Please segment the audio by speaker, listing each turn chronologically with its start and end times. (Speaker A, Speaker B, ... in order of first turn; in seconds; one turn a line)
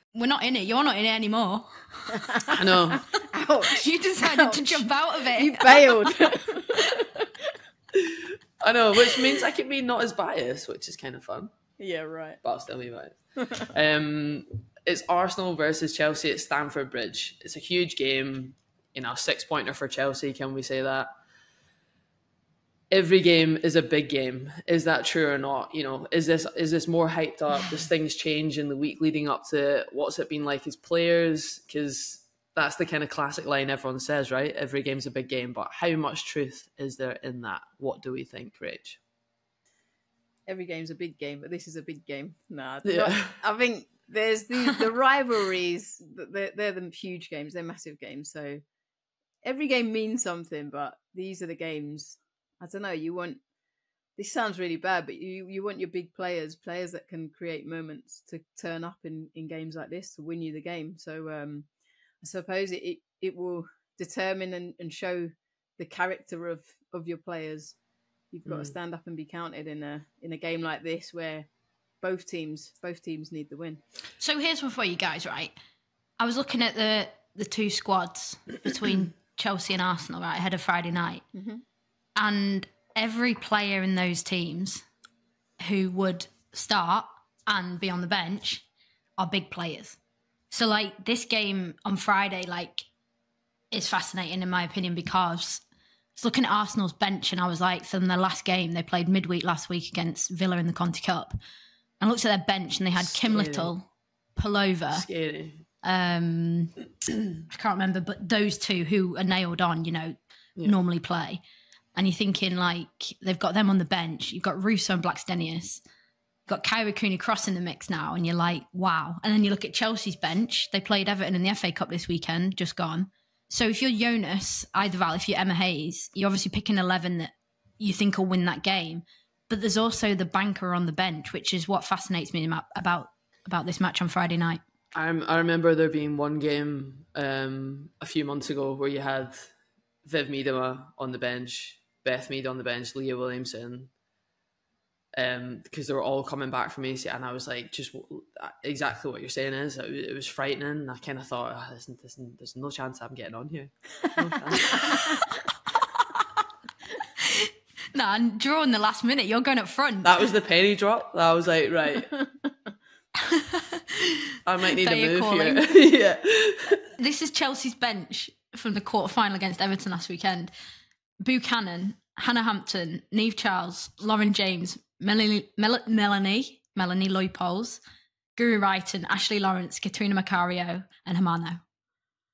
Speaker A: 0.1-2.3
Speaker B: 2.3-7.3
Speaker C: 2.5-3.1
Speaker A: 3.7-6.3
Speaker C: 7.9-11.5
Speaker B: 9.1-9.4
Speaker B: 11.8-12.4
Speaker C: 12.4-21.1
Speaker B: 13.4-13.7
Speaker C: 22.9-39.0
Speaker B: 40.5-48.6
Speaker C: 42.8-43.4
Speaker B: 49.4-53.4
Speaker B: 54.2-61.7
Speaker B: 62.2-67.8
Speaker B: 68.3-71.5
Speaker C: 68.5-68.7
Speaker B: 72.0-73.8
Speaker A: 74.2-75.5
Speaker A: 76.2-81.2
Speaker B: 81.3-81.6
Speaker A: 82.2-84.8
Speaker A: 85.6-88.7
Speaker A: 89.2-90.0
Speaker A: 90.5-92.9
Speaker A: 93.7-95.6
Speaker A: 96.2-101.3
Speaker A: 102.0-105.1
Speaker C: 103.0-103.7
Speaker C: 104.9-105.7
Speaker A: 105.8-106.7
Speaker A: 107.5-111.4
Speaker A: 112.0-115.8
Speaker A: 116.5-134.6
Speaker C: 134.9-139.5
Speaker C: 140.1-143.9
Speaker C: 145.2-155.0
Speaker A: 154.6-155.4
Speaker A: 157.2-160.3
Speaker C: 160.0-162.1
Speaker A: 163.3-164.2
Speaker C: 164.5-166.8
Speaker A: 164.8-165.6
Speaker A: 167.0-170.5
Speaker A: 171.2-177.8
Speaker A: 178.4-181.6